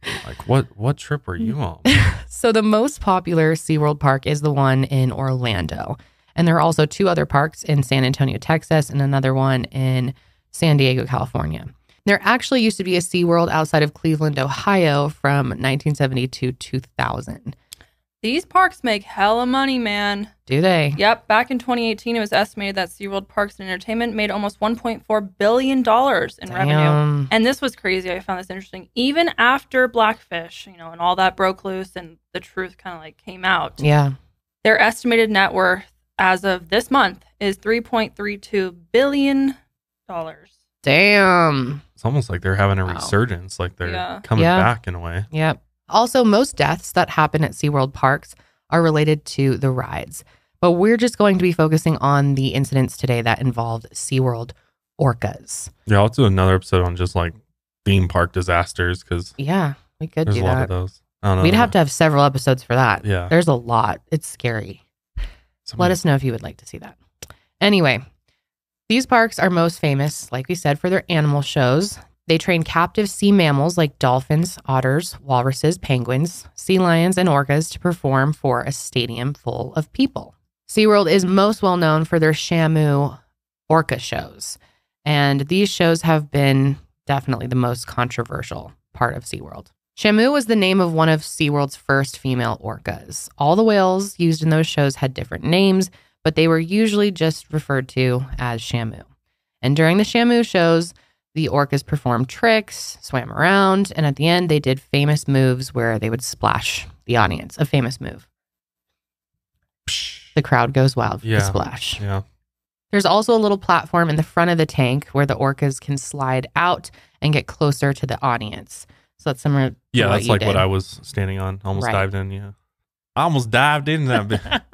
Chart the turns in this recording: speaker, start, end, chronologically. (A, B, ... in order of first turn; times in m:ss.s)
0:00.2-0:01.9 A
0:01.9-0:17.6 B
0:18.2-0:20.3 C
0:20.5-0:21.0 B
0:21.0-0:33.8 C
0:26.5-0:27.3 B
0:33.8-0:34.2 B
0:34.6-0:39.6 C
0:40.1-0:40.6 C
0:40.8-0:41.8 B
0:42.0-0:45.3 A
0:42.9-0:43.1 B
0:43.8-0:44.2 C
0:44.4-0:44.7 B
0:45.3-0:55.7 B
0:55.9-0:59.4 A
0:59.4-1:00.7 B
1:00.3-1:01.8 A
1:01.4-1:04.8 B
1:03.0-1:03.3 A
1:05.6-1:06.0 A
1:05.8-1:07.0 B
1:07.6-1:08.0 B
1:08.9-1:23.2 B
1:23.7-1:39.1 B
1:39.6-1:48.2 B
1:49.9-1:50.4 A
1:50.4-1:52.0 B
1:51.2-1:52.2 A
1:52.9-2:00.7 B
1:59.9-2:02.6 A
2:01.8-2:02.1 B
2:03.2-2:04.6 A